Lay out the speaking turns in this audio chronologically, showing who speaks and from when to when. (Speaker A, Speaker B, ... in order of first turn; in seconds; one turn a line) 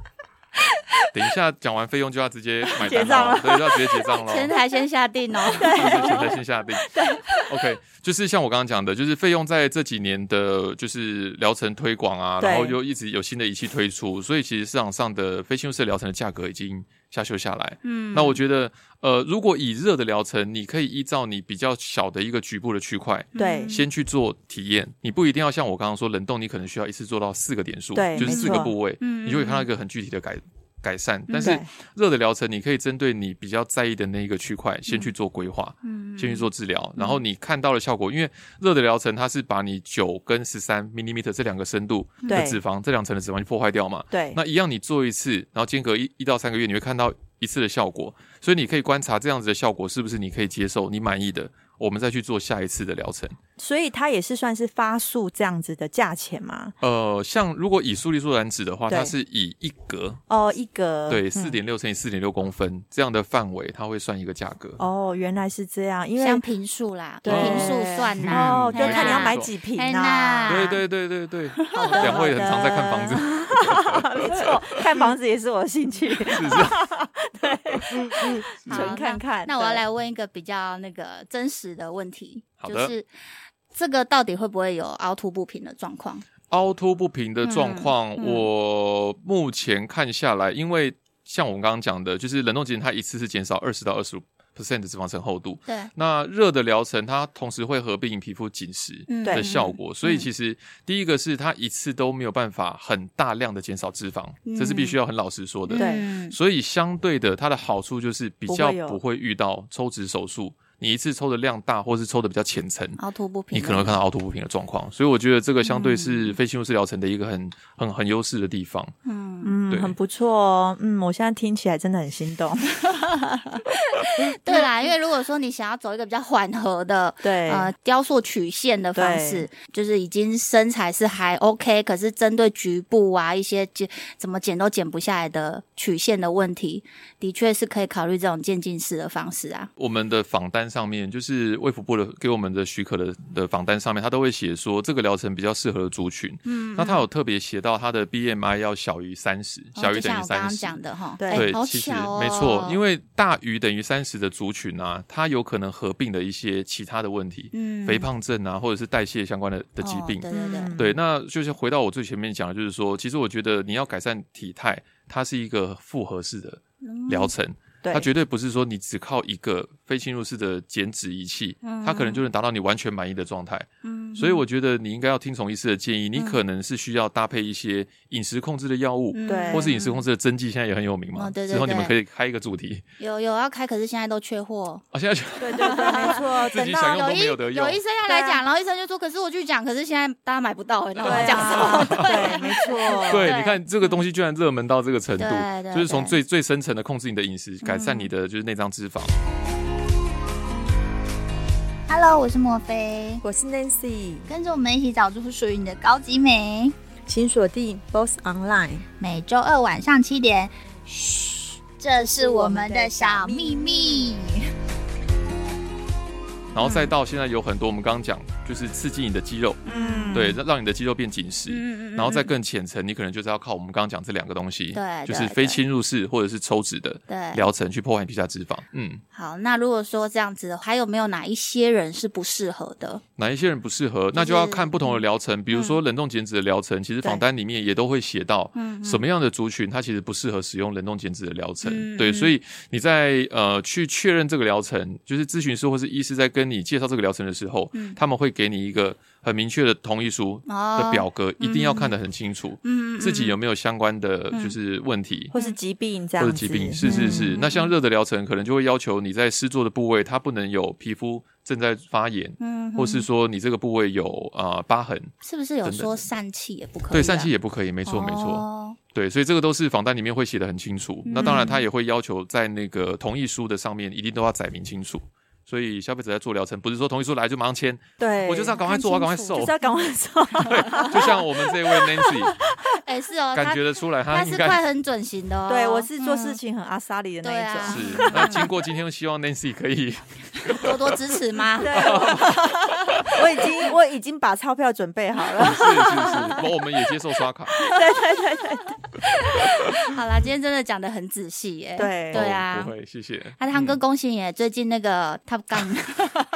Speaker A: 1.1-4.5
Speaker B: 2.8-4.1
Speaker C: 4.1-6.0
Speaker A: 5.5-6.9
Speaker B: 5.6-6.4
Speaker B: 6.9-7.2
Speaker A: 7.5-53.4
Speaker B: 12.4-12.8
Speaker C: 17.8-18.4
Speaker C: 23.3-23.9
Speaker B: 23.4-23.7
Speaker B: 27.9-28.7
Speaker C: 28.1-29.7
Speaker B: 31.3-31.7
Speaker C: 35.8-36.5
Speaker B: 42.3-42.6
Speaker B: 44.1-44.4
Speaker B: 53.6-56.7
Speaker A: 56.8-60.2
Speaker B: 58.9-59.1
Speaker B: 60.3-61.6
Speaker A: 61.1-64.8
Speaker B: 64.8-66.4
Speaker C: 66.2-70.8
Speaker B: 67.2-70.7
Speaker A: 67.2-69.5
Speaker A: 70.5-74.5
Speaker C: 71.6-72.3
Speaker B: 71.7-79.8
Speaker A: 76.3-76.8
Speaker A: 78.0-79.0
Speaker C: 78.7-83.1
Speaker A: 82.6-82.9
Speaker C: 83.7-86.2
Speaker A: 86.5-113.0
Speaker C: 87.4-88.5
Speaker C: 99.1-100.3
Speaker C: 104.5-105.0
Speaker C: 105.7-106.3
Speaker B: 105.8-106.0
Speaker B: 108.5-109.0
Speaker C: 113.0-114.0
Speaker A: 113.5-118.9
Speaker C: 115.6-116.4
Speaker C: 119.0-119.5
Speaker B: 119.4-122.7
Speaker A: 119.7-120.0
Speaker C: 124.0-139.7
Speaker B: 127.2-127.7
Speaker B: 128.9-129.5
Speaker A: 139.8-150.8
Speaker C: 146.5-147.1
Speaker C: 149.8-152.8
Speaker B: 151.2-151.5
Speaker A: 151.3-182.8
Speaker C: 157.5-158.1
Speaker C: 159.8-160.8
Speaker B: 160.3-161.0
Speaker C: 166.8-167.3
Speaker B: 167.8-168.1
Speaker C: 171.6-172.2
Speaker C: 173.8-174.4
Speaker C: 176.2-176.4
Speaker C: 179.1-180.0
Speaker B: 179.3-179.7
Speaker C: 181.1-181.9
Speaker C: 183.0-184.8
Speaker A: 184.9-187.8
Speaker B: 185.4-187.0
Speaker C: 185.6-186.2
Speaker C: 186.8-194.0
Speaker B: 188.1-188.4
Speaker A: 191.0-199.1
Speaker B: 191.0-193.3
Speaker C: 195.2-196.2
Speaker C: 197.6-198.1
Speaker C: 201.9-203.2
Speaker B: 203.2-204.3
Speaker C: 204.3-206.8
Speaker B: 207.1-208.8
Speaker C: 209.0-214.4
Speaker B: 212.0-214.1
Speaker A: 216.5-219.6
Speaker C: 216.6-216.9
Speaker C: 219.6-220.3
Speaker B: 219.7-220.4
Speaker A: 220.1-229.0
Speaker C: 221.5-222.3
Speaker C: 224.7-225.6
Speaker C: 227.1-227.5
Speaker C: 229.1-233.0
Speaker A: 233.2-255.3
Speaker C: 234.1-235.8
Speaker C: 238.5-239.1
Speaker C: 241.6-242.3
Speaker C: 247.7-248.0
Speaker C: 250.5-251.9
Speaker C: 252.6-253.3
Speaker B: 255.3-257.3
Speaker A: 256.2-266.1
Speaker C: 256.8-257.7
Speaker C: 262.4-263.1
Speaker C: 265.2-267.3
Speaker A: 266.9-279.5
Speaker C: 267.8-268.8
Speaker C: 271.1-271.6
Speaker B: 271.1-271.6
Speaker B: 278.0-282.4
Speaker C: 278.6-279.8
Speaker A: 280.4-282.4
Speaker C: 282.8-286.4
Speaker A: 283.3-284.6
Speaker B: 285.5-288.5
Speaker C: 287.2-288.5
Speaker A: 287.6-293.1
Speaker C: 290.6-292.0
Speaker B: 291.6-296.4
Speaker A: 295.4-297.6
Speaker C: 296.0-296.4
Speaker B: 297.6-298.7
Speaker C: 299.0-302.7
Speaker B: 301.8-302.2
Speaker A: 302.1-303.8
Speaker C: 303.4-306.2